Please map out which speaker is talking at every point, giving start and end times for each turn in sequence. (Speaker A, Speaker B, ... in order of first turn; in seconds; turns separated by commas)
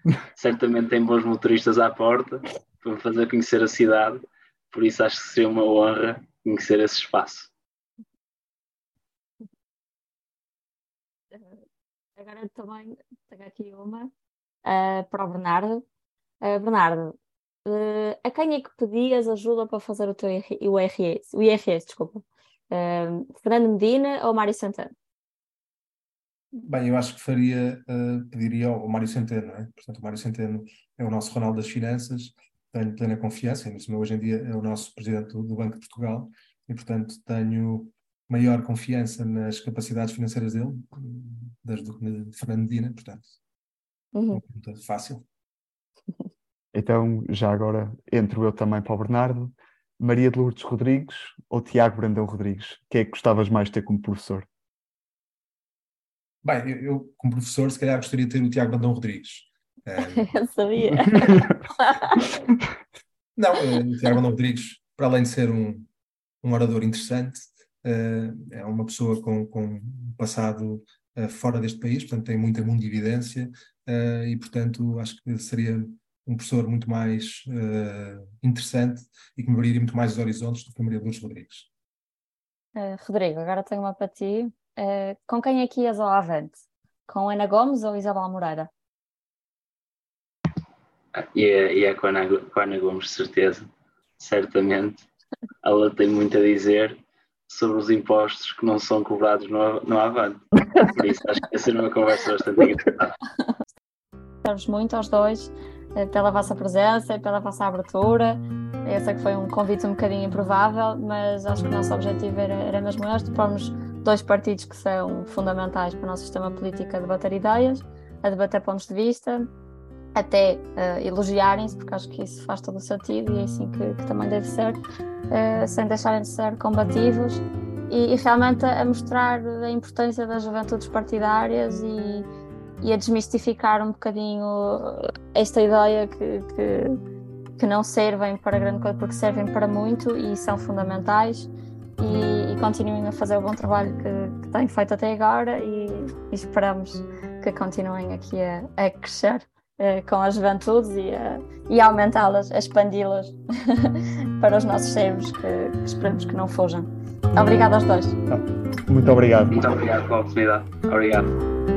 Speaker A: 0.3-7.5, Speaker B: 11.3-11.6, Speaker B: 12.2-14.1, Speaker B: 14.7-15.8, Speaker B: 16.4-17.1, Speaker B: 17.7-24.9, Speaker C: 26.6-43.3, Speaker B: 44.1-44.4, Speaker C: 44.3-45.2, Speaker D: 46.7-54.5, Speaker C: 56.4-60.3, Speaker B: 60.1-62.2, Speaker C: 60.9-61.5, Speaker C: 63.4-65.9, Speaker C: 66.4-81.7, Speaker B: 82.8-88.7, Speaker A: 91.2-93.7, Speaker A: 94.2-95.1, Speaker A: 95.6-97.0, Speaker A: 97.5-103.2, Speaker B: 104.4-119.5, Speaker B: 120.2-124.8, Speaker B: 125.3-132.2, Speaker B: 132.8-137.0, Speaker B: 137.6-158.2, Speaker D: 158.3-159.6, Speaker A: 159.5-161.3